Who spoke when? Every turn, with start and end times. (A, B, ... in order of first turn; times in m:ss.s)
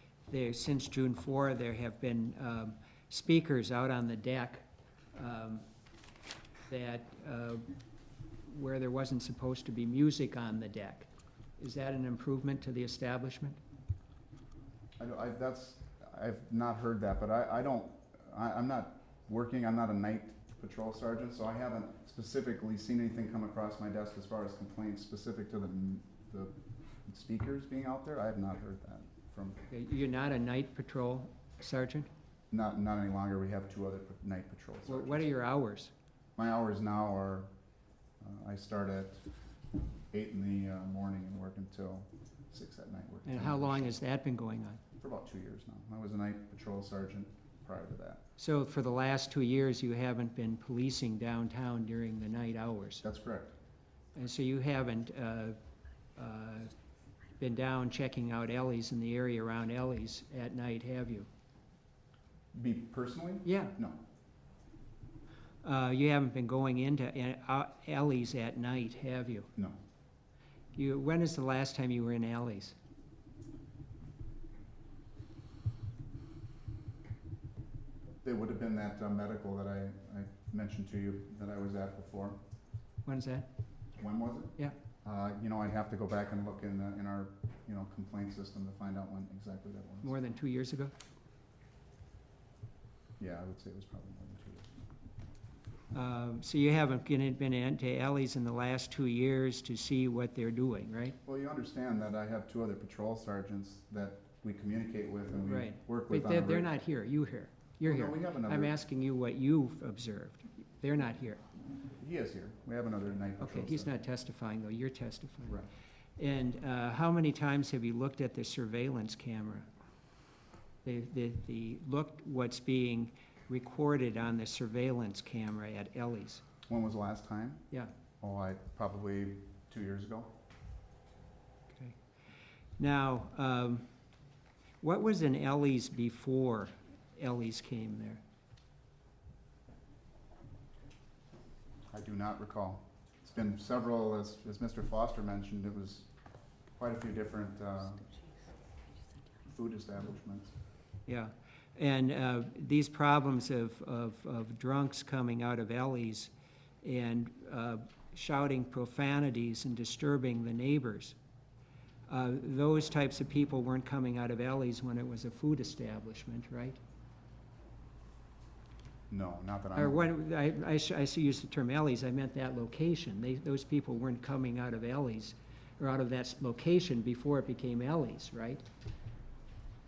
0:00.3-0:05.6 A
0:06.7-0:07.7 A
0:08.4-0:13.6 A
0:15.0-0:26.6 B
0:27.1-0:29.6 B
0:29.7-0:32.1 A
0:32.5-0:35.3 B
0:34.9-0:35.9 A
0:36.4-0:37.5 B
0:38.2-0:39.2 B
0:40.1-0:44.0 B
0:43.3-0:44.8 A
0:45.0-0:48.2 B
0:48.4-0:53.0 A
0:53.0-0:53.5 B
0:54.2-0:55.6 A
0:56.2-0:56.7 A
0:57.4-1:01.3 A
1:02.5-1:04.0 B
1:03.4-1:03.8 A
1:05.6-1:09.5 A
1:10.8-1:12.8 A
1:18.2-1:22.4 B
1:23.0-1:23.5 A
1:24.0-1:30.1 B
1:30.0-1:30.9 A
1:33.2-1:34.7 B
1:35.9-1:41.2 A
1:41.3-1:46.7 B
1:45.4-1:51.4 A
1:47.8-1:48.7 B
1:52.0-1:53.9 B
1:53.4-1:55.6 A
1:56.2-1:59.7 A
2:00.8-2:06.4 A
2:06.7-2:07.7 B
2:08.2-2:10.4 B
2:12.8-2:13.9 A
2:14.8-2:18.2 A
2:21.9-2:26.1 B
2:26.8-2:28.1 B
2:29.5-2:30.5 B
2:31.1-2:41.2 A
2:42.1-2:46.8 A
2:49.1-2:50.1 B
2:49.8-2:58.6 A